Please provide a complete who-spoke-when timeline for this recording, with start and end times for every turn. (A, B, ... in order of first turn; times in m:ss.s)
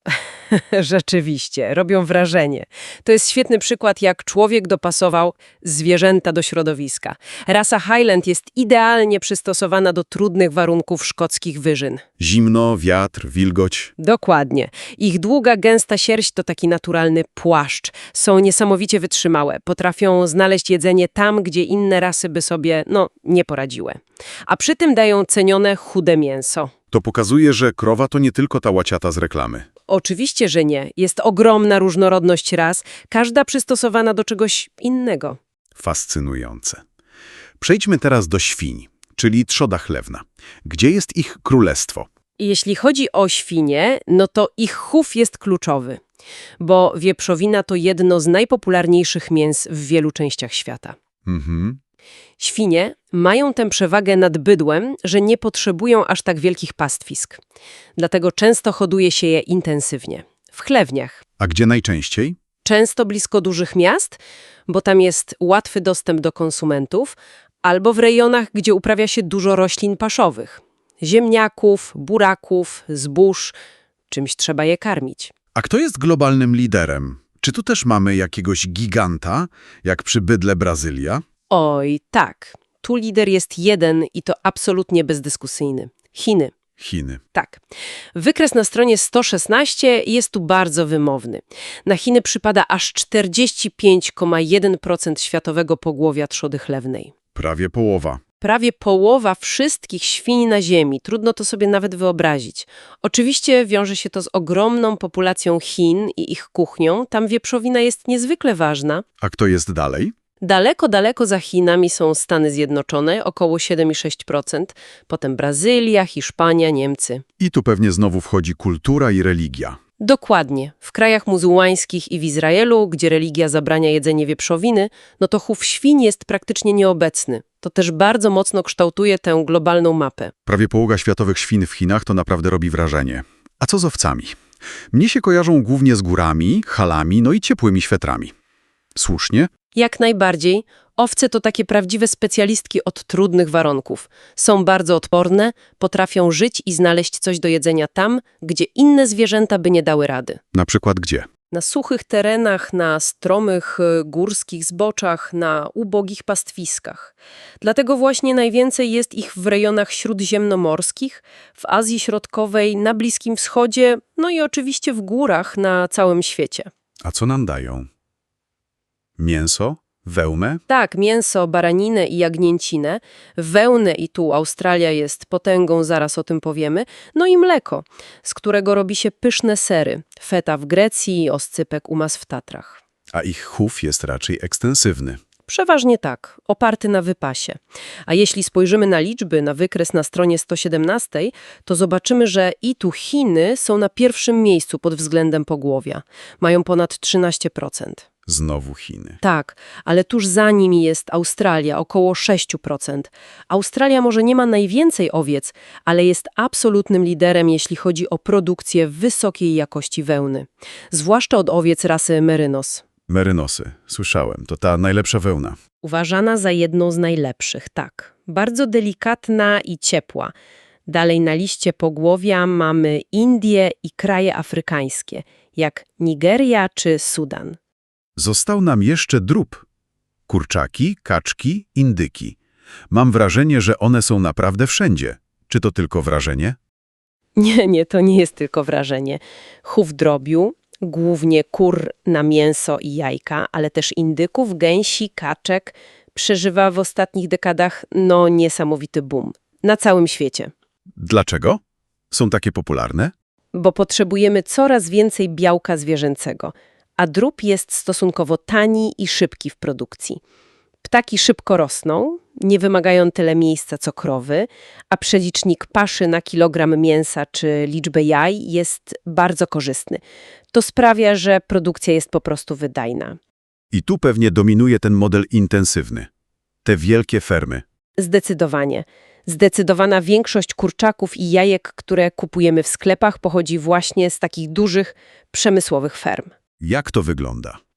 0:00.1-0:12.0 A
0:12.2-0:13.9 B
0:14.0-0:26.7 A
0:26.9-0:29.7 B
0:29.9-0:35.4 A
0:35.8-0:36.8 B
0:37.6-0:42.1 B
0:42.4-0:46.0 A
0:46.6-0:51.0 A
0:51.3-0:51.8 B
0:52.4-0:57.4 A
0:58.0-1:01.2 A
1:01.4-1:02.4 B
1:02.6-1:13.6 A
1:14.1-1:15.3 A
1:15.6-1:21.2 B
1:21.5-1:26.5 A
1:26.8-1:27.2 B
1:27.3-1:27.6 A
1:28.2-1:37.1 A
1:37.4-1:38.2 B
1:38.4-1:49.0 A
1:49.2-1:50.1 B
1:50.4-1:57.2 A
1:57.4-1:59.8 B
2:00.0-2:10.3 A
2:10.5-2:14.4 B
2:14.9-2:18.3 B
2:19.0-2:19.5 B
2:19.8-2:30.4 A
2:30.5-2:31.3 B
2:31.5-2:46.7 A
2:47.0-2:47.9 B
2:49.2-2:50.6 B
2:50.7-3:02.8 A
3:03.1-3:05.2 B
3:05.5-3:18.0 A
3:18.3-3:19.2 B
3:19.2-3:32.8 A
3:33.1-3:35.6 B
3:35.8-3:40.3 A
3:40.9-3:47.6 A
3:48.2-3:49.6 B
3:50.3-3:52.4 B
3:52.9-3:56.6 B
3:57.4-4:10.5 A
4:11.0-4:11.6 B
4:12.1-4:13.1 B
4:13.5-4:20.2 A
4:20.8-4:33.2 A
4:33.7-4:36.1 B
4:36.6-4:37.6 B
4:38.0-4:46.3 A
4:46.6-4:47.6 B